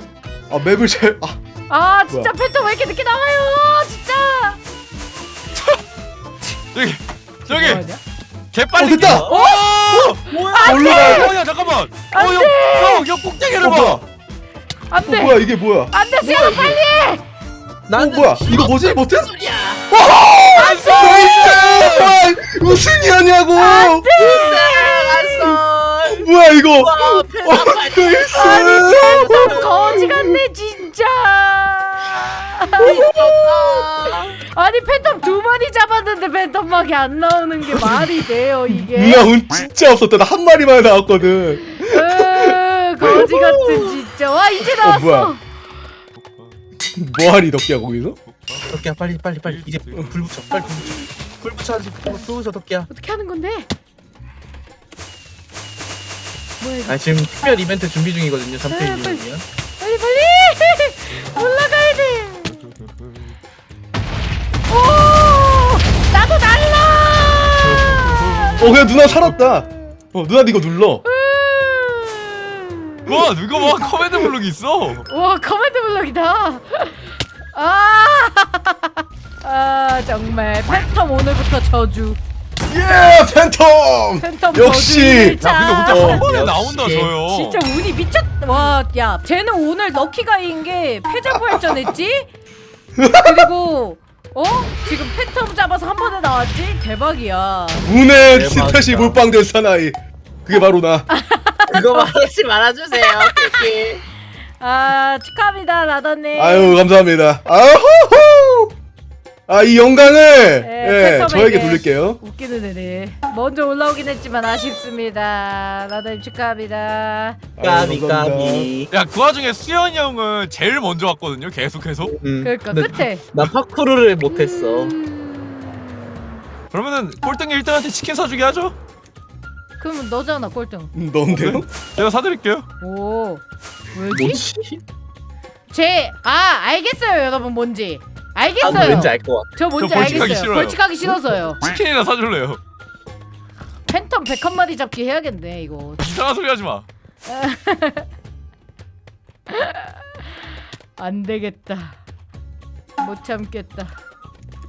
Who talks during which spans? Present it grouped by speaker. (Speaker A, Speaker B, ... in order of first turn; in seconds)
Speaker A: 0.5-1.4, 8.8-9.3, 10.6-11.4, 13.6-14.0, 15.0-15.9, 17.9-19.3, 19.9-24.2, 26.1-30.4, 37.7-38.2, 38.7-42.6, 44.8-45.3, 47.0-48.2, 68.6-71.0, 82.7-86.3, 91.3-91.8, 93.0-93.5, 97.8-101.1, 106.4-108.7, 109.5-112.2, 117.6-118.7, 130.9-131.7, 141.0-141.4
Speaker B: 1.7-4.6, 7.5-8.0, 9.3-11.4, 12.1-13.1, 14.9-17.2, 20.6-21.6, 23.6-25.6, 28.3-39.3, 41.7-45.4, 52.9-53.7, 56.6-57.0, 58.7-59.2, 59.8-62.6, 64.7-68.7, 71.0-73.2, 75.1-82.2, 84.2-86.2, 87.3-92.3, 93.2-97.9, 101.1-102.1, 102.9-103.7, 104.6-106.8, 110.6-117.4, 122.4-123.2, 124.3-125.6, 129.8-130.9, 132.8-134.4, 135.7-141.6, 143.9-146.0, 147.3-148.1, 149.5-152.0, 153.0-154.0
Speaker C: 5.5-5.8, 6.7-7.8, 8.5-14.0, 20.5-22.2, 46.2-46.6, 48.3-48.8, 49.4-51.1, 67.5-69.4, 73.1-75.1, 85.4-87.7, 118.9-122.2, 126.7-128.8, 131.3-132.7, 139.8-140.8, 141.6-142.6, 146.0-146.9
Speaker D: 9.1-9.4, 10.3-10.9, 16.2-16.8, 17.9-19.9, 21.2-21.7, 24.2-30.0, 32.8-34.4, 43.0-44.0, 48.7-52.9, 56.9-59.5, 86.1-87.1, 98.2-99.2, 101.7-104.0, 117.6-118.9, 122.1-125.0, 134.1-134.8, 138.6-139.5